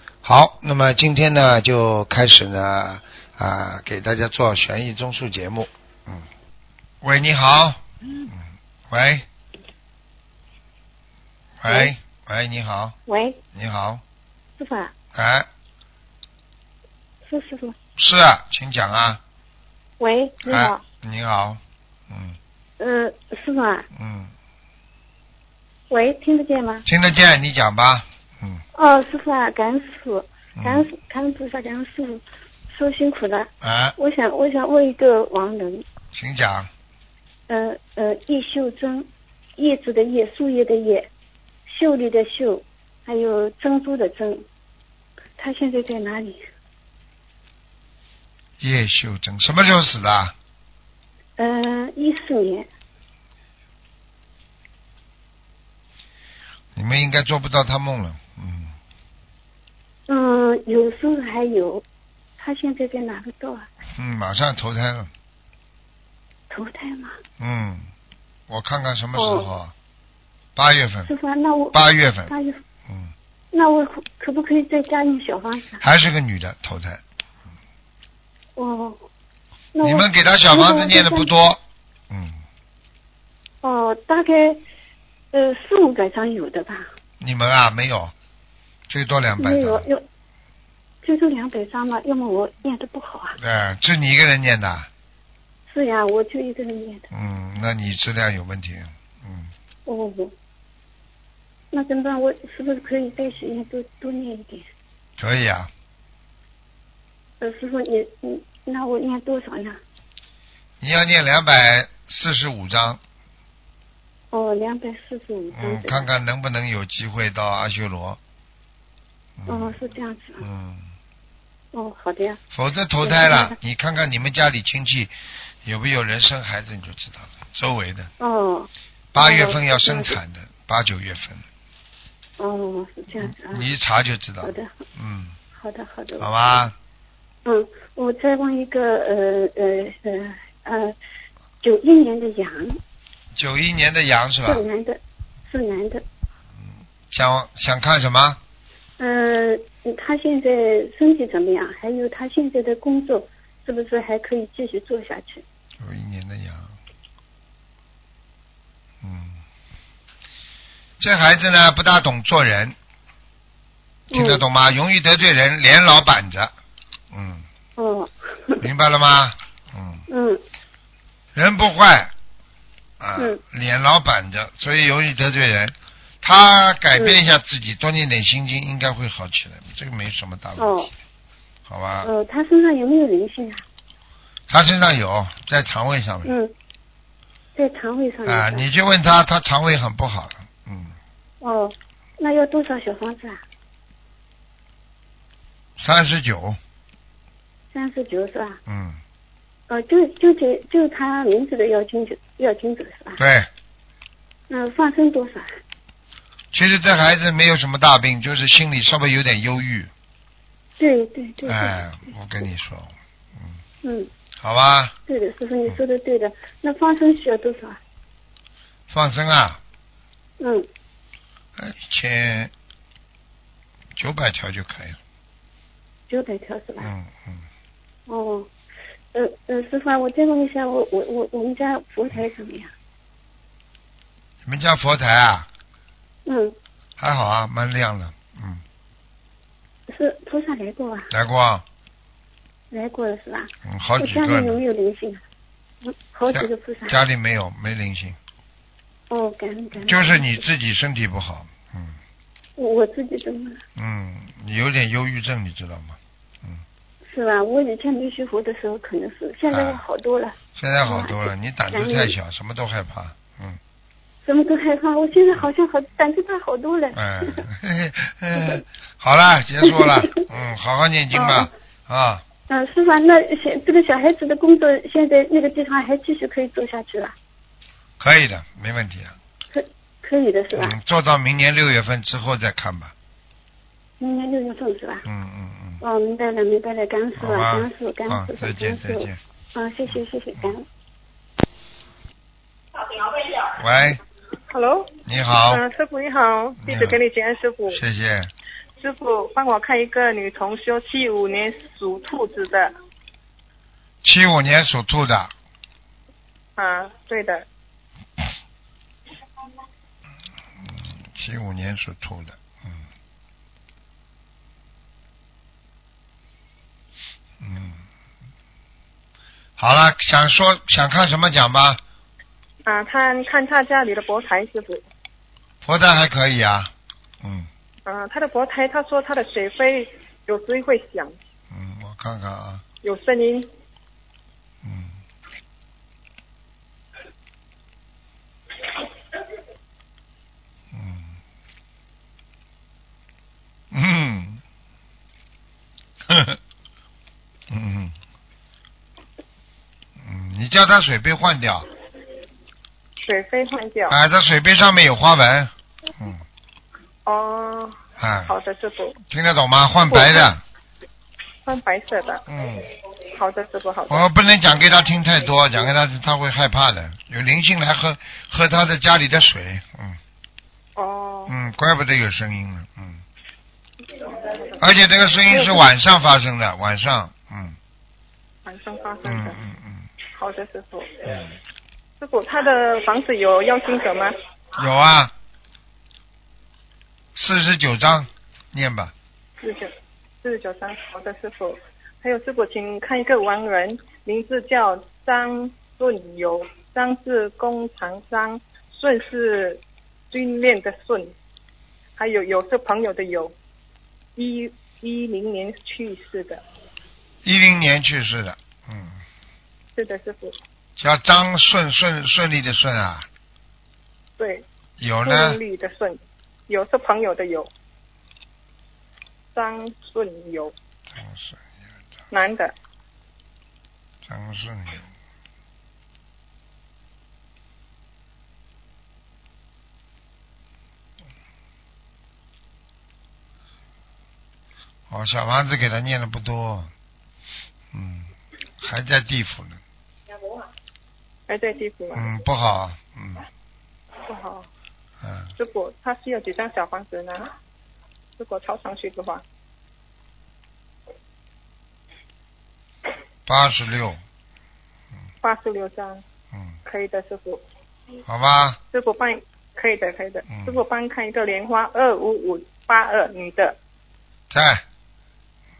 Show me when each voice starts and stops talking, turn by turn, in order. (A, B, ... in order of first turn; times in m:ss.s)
0:00.2-0:06.2 A
0:07.0-0:09.2 A
0:11.6-0:12.9 A
0:11.7-0:11.9 B
0:13.1-0:13.4 B
0:13.5-0:14.0 A
0:14.6-0:14.9 B
0:15.1-0:15.5 A
0:17.2-0:17.7 B
0:18.0-0:19.2 A
0:20.0-0:20.8 B
0:20.4-0:22.4 A
0:22.8-0:23.8 B
0:24.0-0:24.3 A
0:25.9-0:26.8 B
0:26.8-0:28.6 A
0:28.8-0:35.8 B
0:30.6-0:30.9 A
0:33.6-0:33.9 A
0:36.1-0:36.7 A
0:37.5-0:41.1 B
0:41.7-0:44.4 B
0:45.4-0:46.4 B
0:48.6-0:50.3 A
0:51.4-0:52.7 B
0:56.7-0:58.7 A
1:00.1-1:01.8 B
1:02.4-1:03.7 B
1:03.9-1:05.1 A
1:06.5-1:07.2 B
1:07.4-1:07.9 A
1:08.5-1:09.7 A
1:09.1-1:09.5 B
1:10.6-1:11.1 A
1:11.1-1:12.6 B
1:11.7-1:12.3 A
1:13.5-1:15.8 B
1:15.8-1:17.0 A
1:18.6-1:19.0 B
1:19.7-1:21.3 B
1:19.8-1:22.4 A
1:23.6-1:24.6 B
1:25.3-1:26.9 B
1:27.2-1:28.1 A
1:28.9-1:29.8 A
1:29.4-1:30.0 B
1:31.0-1:33.4 B
1:33.4-1:34.9 A
1:35.7-1:37.1 B
1:37.1-1:39.5 A
1:39.8-1:40.3 B
1:41.7-1:44.6 B
1:45.2-1:45.7 A
1:47.4-1:49.8 B
1:50.8-1:53.0 A
1:54.3-1:56.1 B
1:55.5-1:58.2 A
1:59.4-1:59.8 A
1:59.5-2:00.4 B
2:00.4-2:00.9 A
2:01.7-2:02.4 B
2:02.5-2:05.1 A
2:03.0-2:03.6 B
2:05.6-2:08.1 A
2:08.2-2:10.2 B
2:09.1-2:11.4 A
2:12.4-2:13.7 B
2:13.2-2:15.3 A
2:14.4-2:14.8 B
2:15.5-2:16.6 B
2:16.2-2:16.7 A
2:17.4-2:20.9 B
2:21.6-2:22.8 B
2:23.3-2:24.6 A
2:24.4-2:26.0 B
2:27.1-2:28.4 A
2:29.0-2:35.4 B
2:35.8-2:36.7 A
2:39.0-2:39.4 A
2:41.0-2:42.7 A
2:44.1-2:44.4 B
2:44.1-2:46.5 A
2:47.1-2:47.4 A
2:47.8-2:48.6 B
2:48.6-2:50.0 A
2:50.1-2:50.4 B
2:51.3-2:52.1 A
2:53.0-3:00.7 A
3:00.6-3:00.9 B
3:01.7-3:02.1 A
3:02.0-3:03.6 B
3:04.5-3:06.3 A
3:06.2-3:06.5 B
3:07.5-3:08.6 B
3:08.2-3:10.9 A
3:11.4-3:13.4 B
3:15.8-3:16.6 A
3:17.7-3:18.6 B
3:18.6-3:19.0 A
3:19.7-3:23.2 B
3:23.2-3:23.5 A
3:24.5-3:25.5 B
3:26.5-3:29.9 A
3:30.8-3:31.8 B
3:31.4-3:33.6 A
3:33.8-3:34.1 B
3:34.4-3:34.9 A
3:35.1-3:37.8 B
3:38.9-3:39.6 A
3:40.4-3:40.7 B
3:41.6-3:42.5 A
3:44.0-3:45.0 A
3:46.1-3:46.9 B
3:46.8-3:47.4 A
3:48.1-3:48.5 B
3:49.1-3:52.7 B
3:54.4-3:55.5 A
3:56.2-3:56.5 B
3:57.0-3:58.6 A
3:59.9-4:01.1 B
4:01.1-4:01.6 A
4:02.7-4:05.2 B
4:03.6-4:04.6 A
4:05.8-4:07.0 B
4:06.3-4:08.2 A
4:09.1-4:10.4 B
4:09.8-4:12.0 A
4:12.6-4:13.6 B
4:13.8-4:16.6 A
4:17.1-4:22.1 B
4:19.5-4:19.8 A
4:20.6-4:23.6 A
4:24.2-4:27.4 B
4:26.9-4:32.2 A
4:29.7-4:30.1 B
4:31.1-4:31.5 B
4:32.5-4:37.1 B
4:38.0-4:39.2 A
4:39.5-4:40.7 B
4:40.5-4:42.9 A
4:44.0-4:45.0 B
4:45.0-4:45.8 A
4:45.8-4:50.6 B
4:47.2-4:49.2 A
4:53.5-4:54.0 A
4:54.5-4:54.9 C
4:55.0-4:55.6 A
4:55.5-4:57.8 C
4:56.6-4:57.0 A
4:57.7-4:58.3 A
4:58.8-5:02.7 C
5:04.0-5:05.3 A
5:06.6-5:07.4 C
5:10.6-5:12.8 A
5:17.4-5:17.8 A
5:19.6-5:21.8 A
5:22.6-5:24.8 C
5:25.6-5:26.7 A
5:27.2-5:27.5 A
5:27.8-5:31.2 C
5:31.5-5:32.6 A
5:32.8-5:33.5 C
5:34.6-5:35.0 A
5:40.7-5:41.2 A
5:43.7-5:44.4 A
5:46.1-5:46.4 A
5:47.5-5:47.9 A
5:50.0-5:51.6 A
5:53.0-5:54.0 C
5:53.9-5:56.2 A
5:57.0-5:59.0 C
5:58.0-5:58.3 A
5:59.1-6:00.4 A
5:59.9-6:00.3 C
6:01.4-6:02.2 C
6:02.3-6:02.6 A
6:03.1-6:04.0 C
6:03.9-6:10.0 A
6:10.8-6:11.3 C
6:11.3-6:13.0 A
6:14.6-6:17.6 A
6:15.2-6:15.6 C
6:18.4-6:19.4 C
6:19.0-6:19.9 A
6:20.2-6:21.0 C
6:21.0-6:21.3 A
6:22.0-6:24.1 C
6:24.5-6:25.1 A
6:27.1-6:28.9 A
6:29.4-6:29.7 C
6:30.2-6:41.1 C
6:42.0-6:43.3 C
6:44.2-6:46.4 C
6:47.2-6:49.0 A
6:49.8-6:50.4 C
6:50.8-6:53.1 A
6:54.2-6:54.4 C
6:54.8-6:55.4 A
6:55.0-6:57.5 C
6:59.3-7:00.5 C
7:00.9-7:01.4 A
7:02.1-7:02.5 C
7:04.0-7:04.8 A
7:14.9-7:16.7 A
7:17.7-7:19.6 A
7:21.3-7:22.1 C
7:21.9-7:23.2 A
7:24.1-7:24.5 C
7:25.0-7:25.3 A
7:25.4-7:27.3 C
7:28.2-7:29.2 C
7:33.3-7:34.0 A
7:35.2-7:36.0 C
7:36.6-7:37.4 C
7:38.1-7:38.6 A
7:38.7-7:43.6 C
7:40.3-7:40.6 A
7:44.3-7:44.6 A